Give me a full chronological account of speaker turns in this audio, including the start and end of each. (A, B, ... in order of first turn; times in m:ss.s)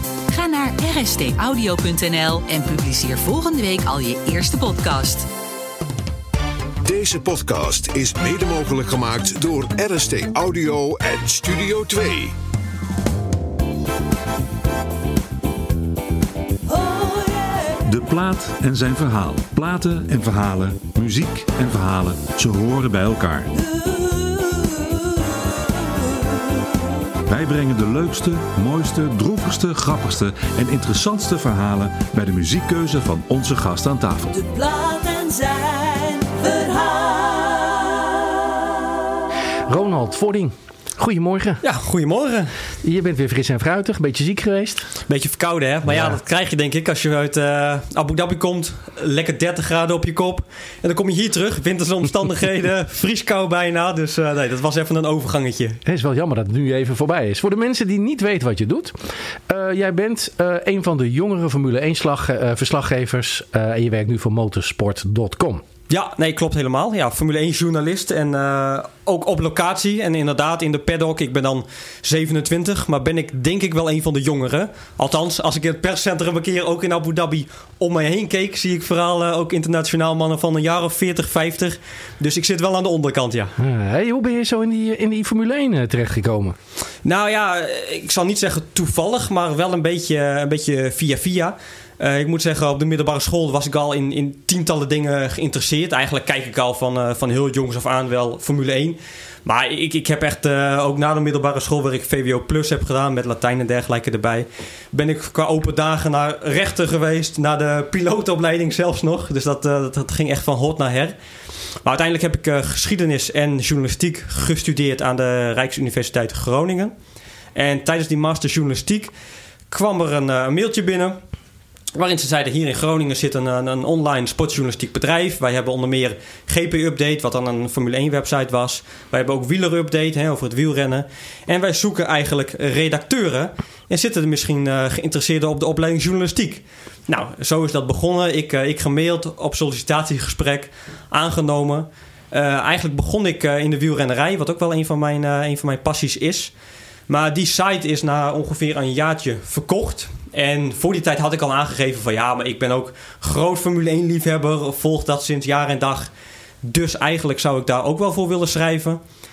0:00.3-0:05.2 A
0:06.8-0:12.3 B
0:16.7-0:17.8 C
0:17.8-0:23.5 D
0:23.6-0:25.2 C
0:27.3-0:34.3 D
0:34.3-0:38.0 C
0:39.7-0:41.6 E
0:41.6-0:42.5 F
0:42.8-0:44.9 E
0:45.1-0:55.8 F
0:45.9-0:46.2 E
0:55.8-0:58.9 E
0:59.5-1:05.6 E
1:05.9-1:23.5 F
1:23.6-1:26.6 E
1:27.0-1:51.1 F
1:51.8-1:56.9 F
1:57.5-1:59.1 F
1:59.7-2:01.2 F
2:01.9-2:26.5 F
2:27.1-2:36.1 F
2:36.6-2:39.0 F